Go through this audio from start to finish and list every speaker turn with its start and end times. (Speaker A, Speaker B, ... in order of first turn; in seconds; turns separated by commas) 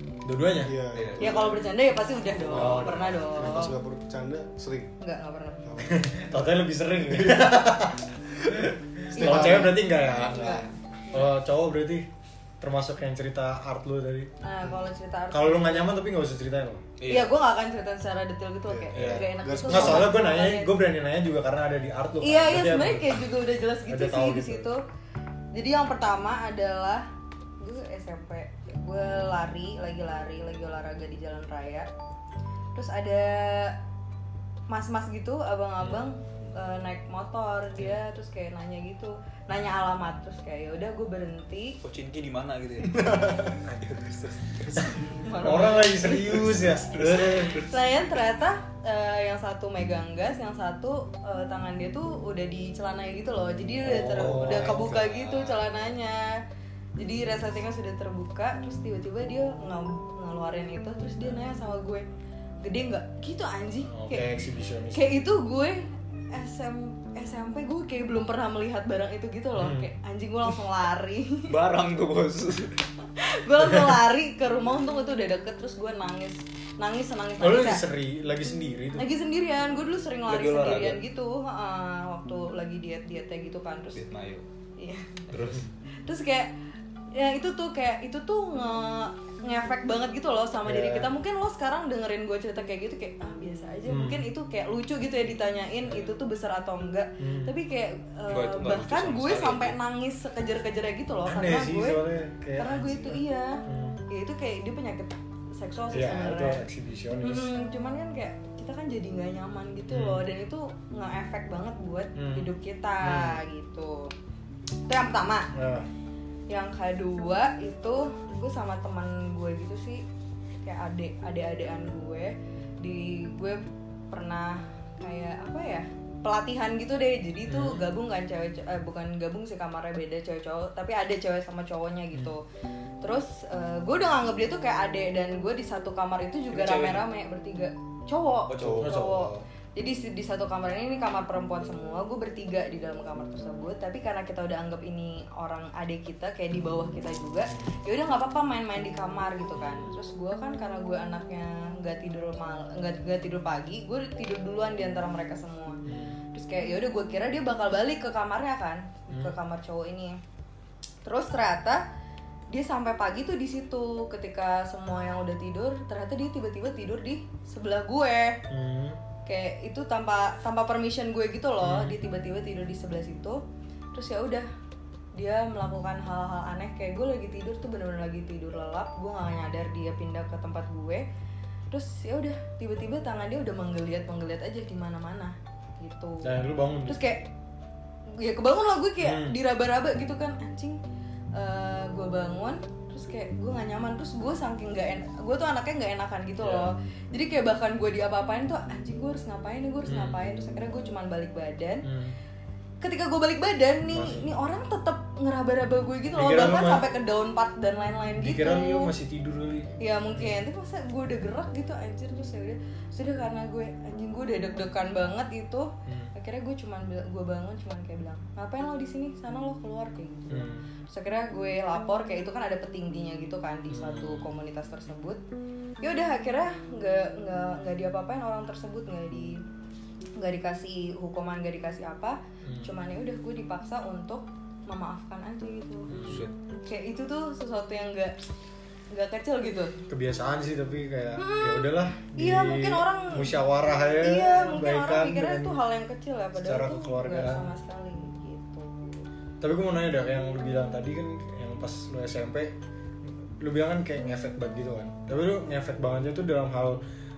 Speaker A: 0.2-0.8, Speaker B: 0.6-1.6, Speaker C: 0.9-1.3, Speaker D: 1.2-3.8, Speaker B: 2.4-4.9, Speaker A: 2.5-3.4, Speaker D: 5.0-5.6, Speaker B: 5.6-6.2, Speaker A: 5.8-12.1, Speaker B: 7.1-7.6, Speaker B: 9.1-9.8, Speaker D: 9.1-11.3, Speaker A: 12.6-14.3, Speaker D: 14.4-15.9, Speaker A: 15.3-16.8, Speaker C: 17.0-17.3, Speaker D: 17.1-20.7, Speaker B: 18.7-20.1, Speaker A: 18.9-23.3, Speaker D: 22.2-24.8, Speaker A: 23.9-24.7, Speaker D: 25.5-27.1, Speaker D: 27.6-31.9, Speaker D: 32.7-33.8, Speaker D: 34.7-41.8, Speaker C: 41.8-47.7, Speaker B: 42.9-43.5, Speaker D: 45.0-46.7, Speaker A: 45.4-47.6, Speaker D: 47.3-56.4, Speaker A: 53.8-55.0, Speaker C: 54.2-55.6, Speaker D: 57.0-62.0, Speaker D: 62.6-64.3, Speaker A: 63.9-65.2, Speaker D: 64.9-71.5, Speaker A: 69.6-69.9, Speaker C: 71.5-72.8, Speaker D: 73.1-77.8, Speaker A: 77.4-79.1, Speaker D: 79.0-84.0, Speaker C: 80.3-81.0, Speaker C: 83.9-84.4, Speaker D: 84.8-85.3, Speaker C: 85.3-85.7, Speaker D: 86.0-86.5, Speaker D: 87.1-102.0, Speaker A: 90.6-91.1, Speaker A: 93.9-94.3, Speaker A: 97.2-97.5, Speaker C: 98.3-99.8, Speaker A: 101.2-104.0, Speaker D: 102.6-106.6, Speaker A: 105.9-107.5, Speaker D: 107.2-114.1, Speaker A: 109.9-110.2, Speaker A: 112.2-112.5, Speaker A: 113.0-113.4, Speaker D: 114.9-115.5, Speaker A: 115.5-115.9, Speaker D: 116.5-120.0, Speaker D: 120.6-132.4, Speaker A: 127.5-127.9, Speaker D: 133.0-155.8, Speaker C: 136.5-137.1, Speaker C: 138.5-138.9, Speaker A: 138.6-139.4, Speaker A: 149.6-149.9, Speaker A: 155.9-156.2, Speaker D: 156.3-160.2, Speaker D: 161.1-161.8, Speaker D: 162.5-168.4, Speaker A: 168.5-169.0, Speaker D: 169.2-173.4, Speaker A: 171.6-172.0, Speaker D: 173.9-174.5, Speaker D: 175.1-181.1, Speaker D: 181.7-186.3, Speaker A: 186.2-187.0, Speaker D: 186.9-187.2, Speaker D: 188.1-190.8, Speaker A: 189.0-189.4, Speaker D: 191.3-201.9, Speaker A: 196.4-196.7, Speaker A: 199.9-200.2, Speaker A: 201.8-202.2, Speaker D: 202.8-208.9, Speaker A: 203.9-204.3, Speaker A: 206.1-206.9, Speaker A: 208.2-210.4, Speaker D: 209.8-225.2, Speaker A: 215.9-216.1, Speaker A: 220.3-220.6, Speaker A: 223.7-224.3, Speaker D: 225.8-229.4, Speaker D: 230.2-238.2, Speaker A: 232.4-232.7, Speaker A: 235.9-236.2, Speaker C: 236.1-236.3, Speaker D: 238.9-239.8, Speaker A: 239.9-245.5, Speaker D: 241.2-249.1, Speaker A: 246.4-247.4, Speaker A: 249.4-252.5, Speaker A: 253.4-256.8